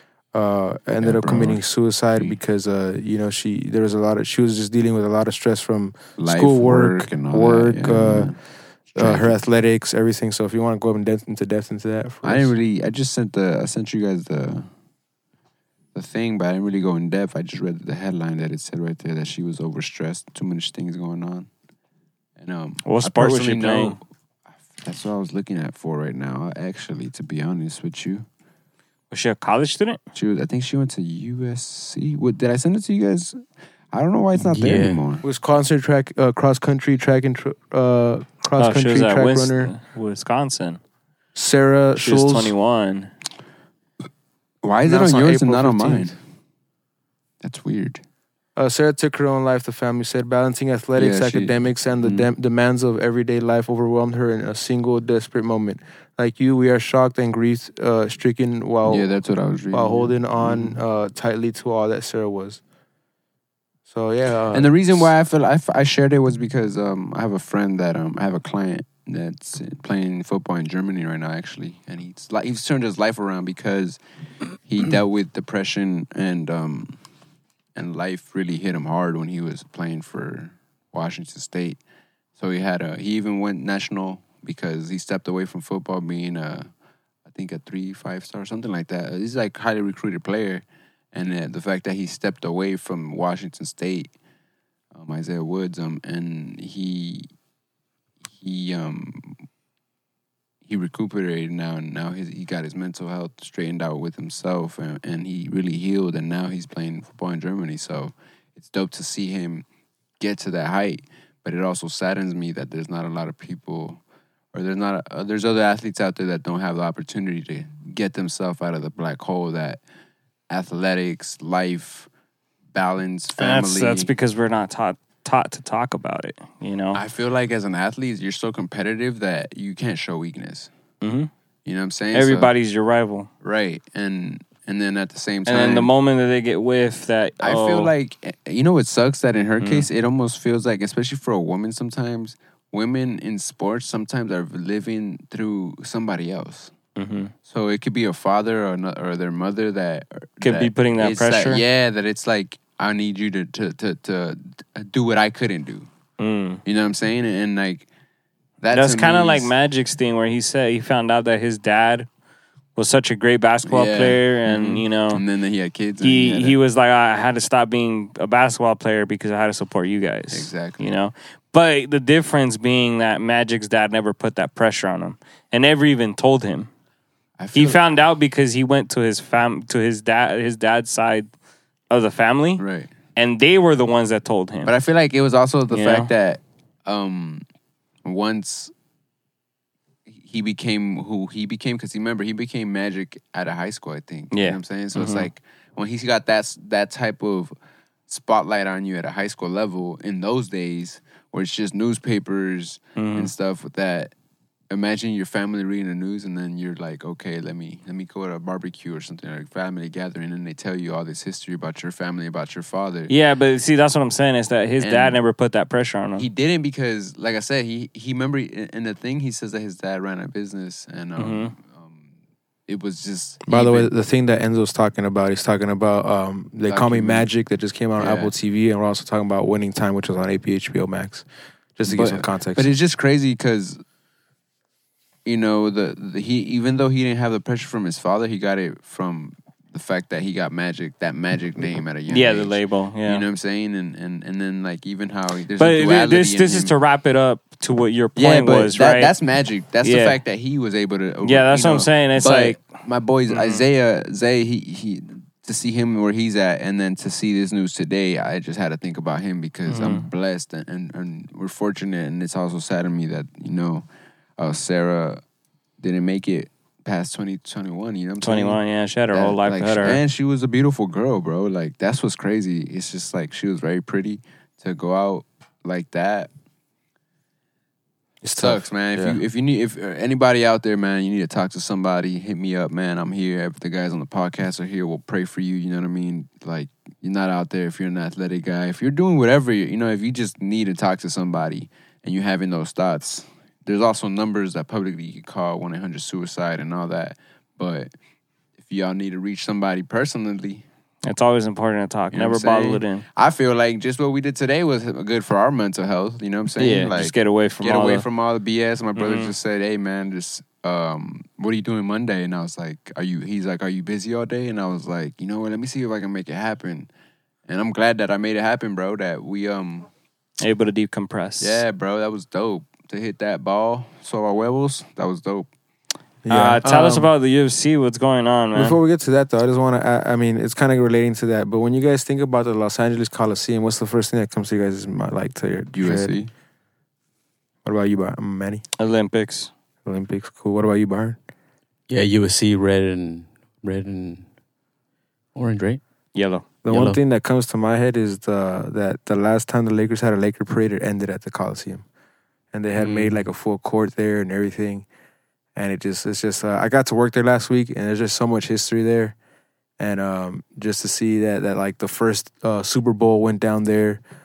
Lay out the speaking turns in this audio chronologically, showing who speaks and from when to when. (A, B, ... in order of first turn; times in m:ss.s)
0:00.3-0:08.3 A
0:01.0-0:01.6 B
0:06.2-0:08.4 B
0:08.9-0:09.4 B
0:09.0-0:12.6 A
0:12.2-0:14.7 B
0:16.0-0:21.5 B
0:22.4-0:24.0 B
0:22.8-0:24.0 C
0:24.7-0:28.3 B
0:29.1-0:30.0 C
0:30.1-0:33.4 B
0:33.9-0:35.2 B
0:34.4-0:35.0 D
0:35.2-0:39.7 A
0:38.6-0:40.8 C
0:41.4-0:42.5 A
0:42.0-0:43.1 C
0:44.6-0:46.2 B
0:44.8-0:46.1 A
0:47.4-0:48.0 B
0:48.6-0:59.1 A
0:51.0-0:52.3 B
0:58.9-1:00.8 B
0:59.7-1:02.6 A
1:03.9-1:04.7 A
1:04.5-1:14.0 B
1:14.7-1:17.0 B
1:17.8-1:21.8 B
1:22.4-1:26.7 B
1:27.3-1:34.1 B
1:34.9-1:37.3 B
1:38.4-1:39.4 B
1:40.7-1:49.6 B
1:50.2-1:54.0 B
1:54.5-1:59.8 B
2:00.5-2:02.1 B
2:02.7-2:04.1 B
2:03.4-2:07.0 C
2:06.9-2:10.7 B
2:11.0-2:11.3 C
2:11.6-2:12.5 B
2:12.1-2:13.3 C
2:13.4-2:15.9 B
2:15.5-2:17.9 C
2:17.4-2:26.7 B
2:19.6-2:19.9 C
2:27.0-2:27.3 C
2:27.5-2:35.9 B
2:30.4-2:31.6 C
2:36.2-2:36.6 C
2:36.6-2:37.8 B
2:38.6-2:39.5 B
2:38.7-2:42.1 C
2:42.8-2:45.2 C
2:43.7-2:46.6 B
2:46.0-2:56.7 C
2:50.3-2:50.8 B
2:57.4-2:57.8 B
2:57.6-3:01.3 C
3:01.9-3:02.6 C
3:02.6-3:02.9 B
3:03.2-3:04.7 C
3:04.6-3:07.4 B
3:05.7-3:06.1 C
3:08.0-3:08.7 B
3:10.1-3:17.5 B
3:14.3-3:15.3 C
3:18.1-3:24.1 B
3:23.0-3:23.3 C
3:24.7-3:33.1 B
3:33.1-3:36.3 C
3:34.8-3:35.2 B
3:36.2-3:42.0 B
3:41.2-3:41.5 C
3:42.7-3:43.9 B
3:43.5-3:51.2 A
3:46.7-3:47.3 B
3:48.0-3:48.3 B
3:51.8-3:52.7 A
3:51.9-3:53.8 B
3:55.2-4:06.7 B
4:02.1-4:03.2 C
4:05.6-4:09.1 C
4:08.2-4:23.8 B
4:09.8-4:10.2 C
4:11.2-4:12.6 C
4:13.3-4:13.6 C
4:19.7-4:20.1 C
4:24.4-4:25.2 B
4:25.8-4:28.6 B
4:28.2-4:30.0 C
4:29.1-4:36.3 B
4:38.2-4:39.2 A
4:38.4-4:57.9 B
4:58.6-5:00.6 B
5:01.0-5:03.0 C
5:02.1-5:16.9 B
5:06.6-5:08.0 C
5:09.0-5:09.3 C
5:17.5-5:19.9 B
5:20.4-5:21.6 C
5:21.4-5:25.5 B
5:26.2-5:27.1 A
5:26.3-5:28.8 C
5:28.5-5:36.1 A
5:35.7-5:36.3 B
5:37.6-5:38.6 A
5:38.8-5:39.5 C
5:39.8-5:41.2 A
5:41.9-5:44.3 D
5:45.4-5:45.8 D
5:46.2-5:46.4 C
5:46.6-5:51.8 A
5:46.7-5:47.0 D
5:52.5-5:54.9 A
5:52.8-5:53.1 D
5:55.6-5:59.2 A
5:59.8-6:04.0 A